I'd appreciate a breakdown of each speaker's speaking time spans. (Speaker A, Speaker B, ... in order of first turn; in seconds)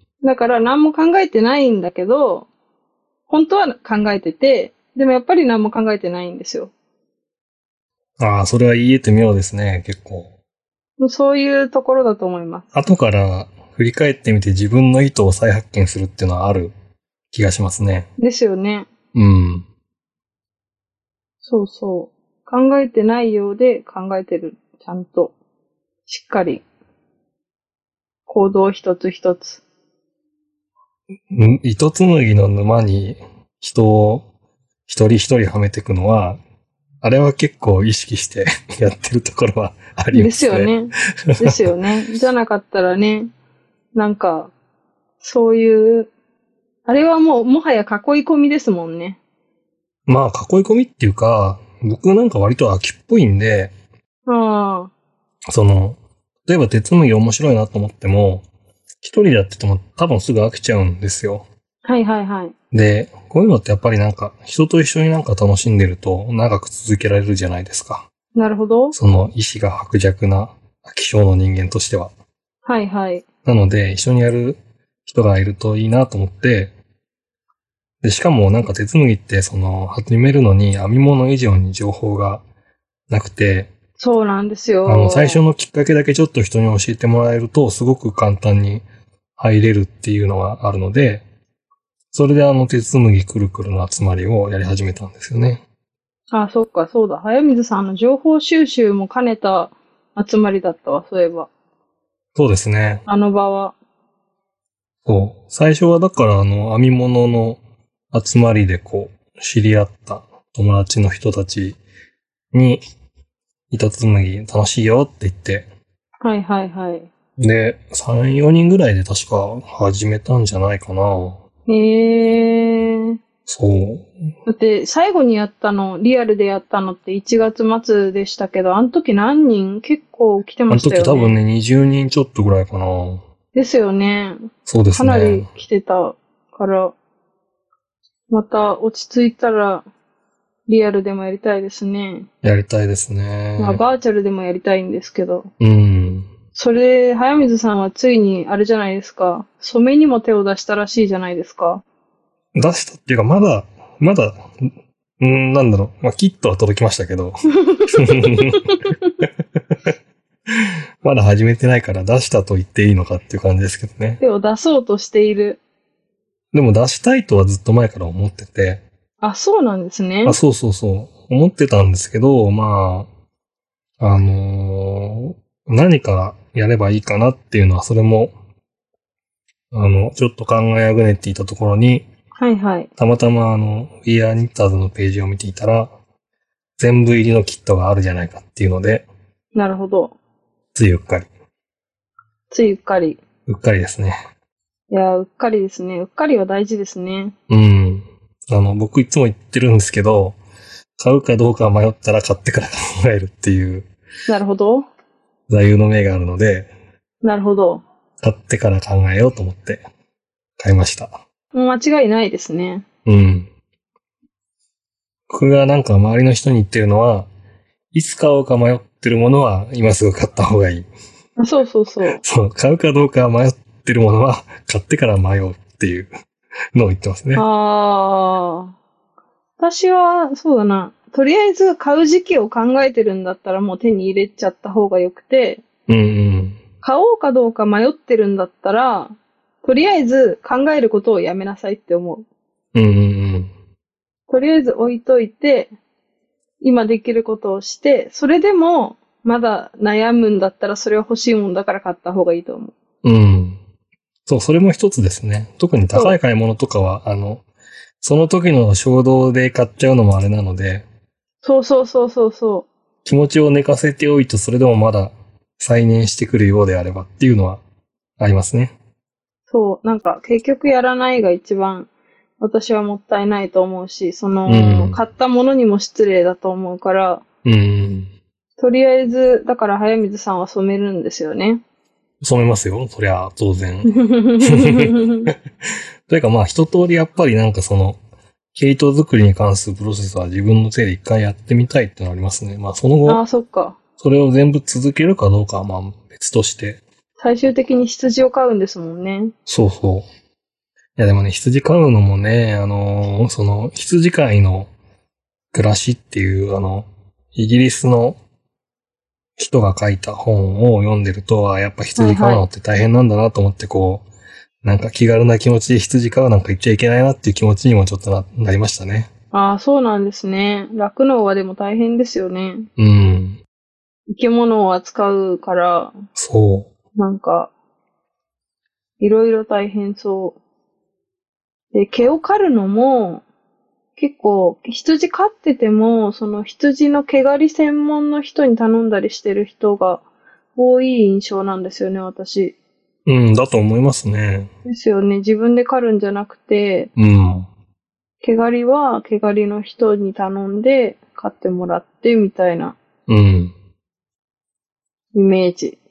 Speaker A: 0.2-2.5, 3.3-6.7, 11.0-12.7, 18.2-18.9, 21.4-25.3, 26.1-26.6, 28.3-29.6, 40.1-43.3, 44.0-44.5, 45.2-46.1, 46.9-49.2, 54.3-54.9, 61.9-62.5, 68.3-69.0, 72.7-73.3, 84.0-85.4, 96.3-101.5, 103.1-103.8, 116.2-117.1, 121.7-123.2, 124.5-131.3, 133.5-136.9, 138.3-139.8, 140.7-142.3, 143.6-145.5, 146.5-151.8, 157.6-158.9, 164.2-165.6, 169.2-170.4, 182.4-182.9, 189.6-190.2, 192.5-193.2, 194.9-197.4, 204.3-204.9, 207.2-207.8, 211.5-212.9, 221.4-222.2, 227.4-228.8, 229.6-235.7, 236.8-242.3, 244.3-245.7, 246.6-252.8, 261.4-262.7, 269.5-277.2, 278.6-281.6, 283.9-285.3, 293.1-293.8, 297.2-299.3, 312.0-312.4, 319.3-322.7, 324.1-325.9, 327.0-327.5, 329.0-330.4, 331.7-333.2, 334.0-340.0, 340.6-342.6, 344.6-346.9, 348.2-352.8, 355.1-355.8
Speaker B: 8.2-10.3, 12.7-16.7, 17.3-18.1, 19.1-19.7, 31.3-34.3, 34.9-36.4, 37.0-40.7, 41.3-41.7, 50.1-53.7, 55.5-58.5, 59.0-61.5, 62.7-68.1, 68.9-72.1, 73.5-76.7, 78.0-82.5, 83.1-83.7, 84.8-88.9, 89.4-91.3, 92.1-95.6, 102.3-103.0, 105.1-107.6, 108.1-111.8, 112.5-112.8, 113.7-115.7, 117.4-121.4, 123.5-124.1, 130.7-133.2, 134.7-135.5, 142.4-143.8, 145.6-146.3, 152.6-159.3, 160.5-164.2, 166.5-168.8, 170.2-173.1, 174.0-178.3, 179.7-182.1, 183.0-185.9, 186.8-189.1, 190.8-191.3, 193.5-194.2, 197.5-200.4, 201.0-203.9, 205.5-206.7, 208.2-209.9, 210.6-211.2, 213.1-213.5, 215.3-217.3, 217.9-220.9, 222.1-226.1, 226.7-227.4, 235.9-236.6, 242.8-243.5, 253.0-253.6, 254.3-257.4, 258.0-260.9, 263.1-267.6, 268.2-268.8, 274.5-275.0, 277.4-278.1, 282.2-285.3, 286.1-288.0, 288.6-293.2, 294.0-296.8, 299.5-300.1, 301.0-304.7, 305.5-308.2, 309.4-314.1, 314.6-319.1, 322.8-323.4, 326.1-326.7, 343.1-344.5, 347.0-347.5, 353.1-353.5